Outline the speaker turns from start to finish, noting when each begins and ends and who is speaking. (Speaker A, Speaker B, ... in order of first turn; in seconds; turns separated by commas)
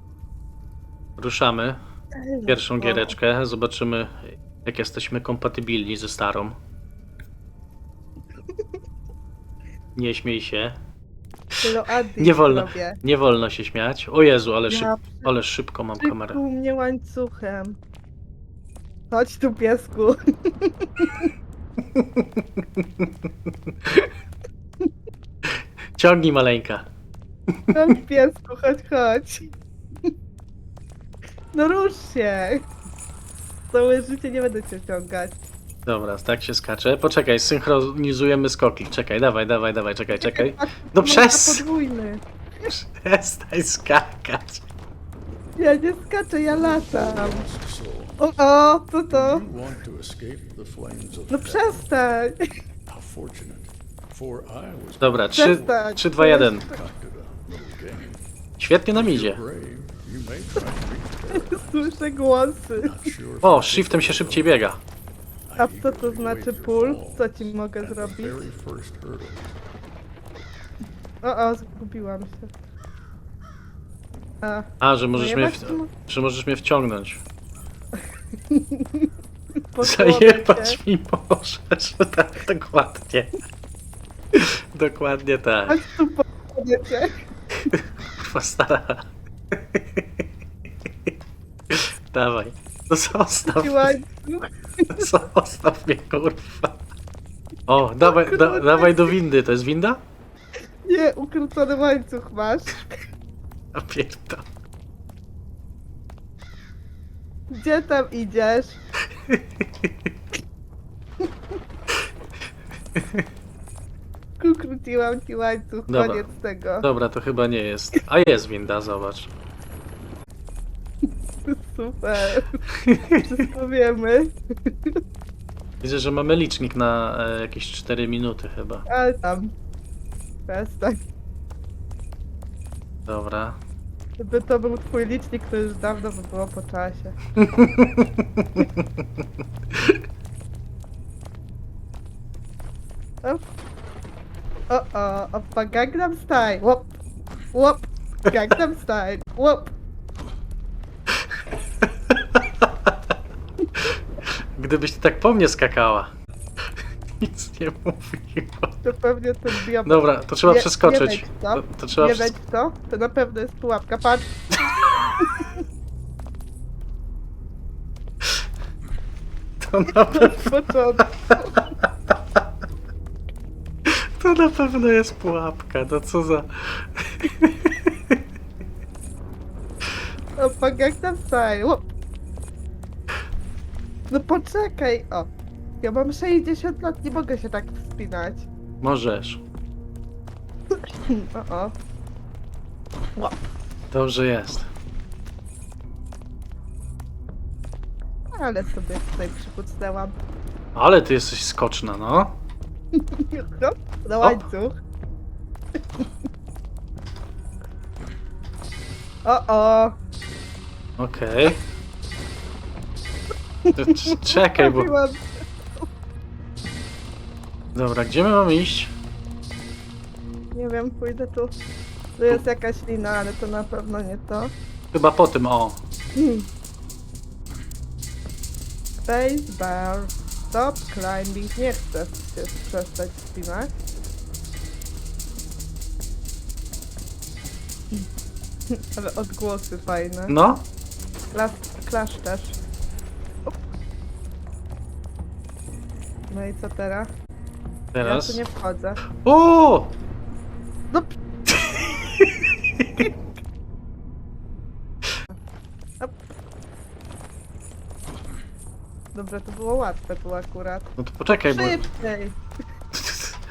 Speaker A: 1.2-1.8, Speaker B: 2.1-3.2, Speaker A: 2.5-6.6, Speaker A: 10.0-10.8, Speaker B: 11.6-13.0, Speaker A: 12.2-16.4, Speaker B: 14.7-15.3, Speaker B: 16.0-17.8, Speaker B: 19.1-21.3, Speaker A: 22.0-23.1, Speaker A: 25.5-26.9, Speaker B: 27.7-29.5, Speaker B: 31.5-32.7, Speaker B: 33.7-35.4, Speaker A: 35.9-41.6, Speaker B: 40.1-42.2, Speaker A: 42.7-44.6, Speaker B: 45.6-47.5, Speaker C: 46.5-48.2, Speaker B: 48.2-49.5, Speaker C: 49.1-51.9, Speaker B: 51.3-52.4, Speaker C: 52.9-55.8, Speaker A: 55.0-56.7, Speaker B: 55.3-56.8, Speaker C: 56.6-58.2, Speaker A: 58.6-59.4, Speaker C: 58.9-61.9, Speaker B: 61.3-63.0, Speaker C: 62.8-64.5, Speaker A: 63.4-64.8, Speaker C: 65.5-69.6, Speaker B: 65.6-68.4, Speaker B: 71.2-72.5, Speaker B: 74.4-75.9, Speaker A: 74.8-77.2, Speaker B: 78.5-79.1, Speaker B: 79.7-80.8, Speaker A: 79.8-83.3, Speaker A: 84.3-85.8, Speaker B: 85.7-87.2, Speaker A: 87.7-90.2, Speaker A: 91.7-93.9, Speaker B: 93.5-95.1, Speaker A: 94.9-96.8, Speaker A: 97.7-100.0, Speaker B: 98.0-99.1, Speaker B: 100.9-103.0, Speaker A: 103.7-104.4, Speaker B: 107.5-108.8, Speaker A: 109.3-109.9, Speaker A: 113.0-113.2, Speaker B: 114.4-116.9, Speaker A: 115.9-116.3, Speaker A: 116.8-119.3, Speaker B: 121.5-122.6, Speaker A: 122.8-123.2, Speaker B: 123.2-125.0, Speaker A: 125.8-128.8, Speaker B: 128.9-129.5, Speaker B: 130.5-131.0, Speaker A: 133.1-133.6, Speaker B: 134.2-137.2, Speaker A: 137.4-138.7, Speaker B: 144.7-147.0, Speaker B: 147.5-149.7, Speaker A: 152.1-152.9, Speaker A: 154.6-156.1, Speaker A: 157.2-158.8, Speaker B: 158.8-164.6, Speaker A: 159.8-162.3, Speaker B: 165.2-165.5, Speaker A: 169.6-170.7, Speaker B: 169.9-171.6, Speaker A: 173.9-178.2, Speaker B: 180.4-181.8, Speaker B: 184.1-185.3, Speaker B: 185.8-188.5, Speaker A: 188.8-189.4, Speaker B: 190.8-191.7, Speaker A: 193.9-194.7, Speaker B: 198.3-200.2, Speaker A: 200.8-202.4, Speaker B: 203.0-204.8, Speaker B: 209.2-210.0, Speaker A: 211.0-211.6, Speaker B: 213.7-215.8, Speaker A: 213.8-214.9, Speaker A: 217.8-218.9, Speaker B: 220.5-221.5, Speaker B: 222.2-224.5, Speaker A: 224.9-225.8, Speaker B: 226.2-226.5, Speaker B: 229.1-233.7, Speaker B: 238.7-240.3, Speaker A: 240.3-240.6, Speaker B: 241.3-242.6, Speaker B: 246.3-247.1, Speaker A: 247.9-248.4, Speaker B: 248.0-249.0, Speaker A: 249.2-249.9, Speaker A: 251.6-252.3, Speaker B: 259.1-260.9, Speaker A: 261.0-261.8, Speaker B: 261.5-262.4, Speaker A: 262.9-263.4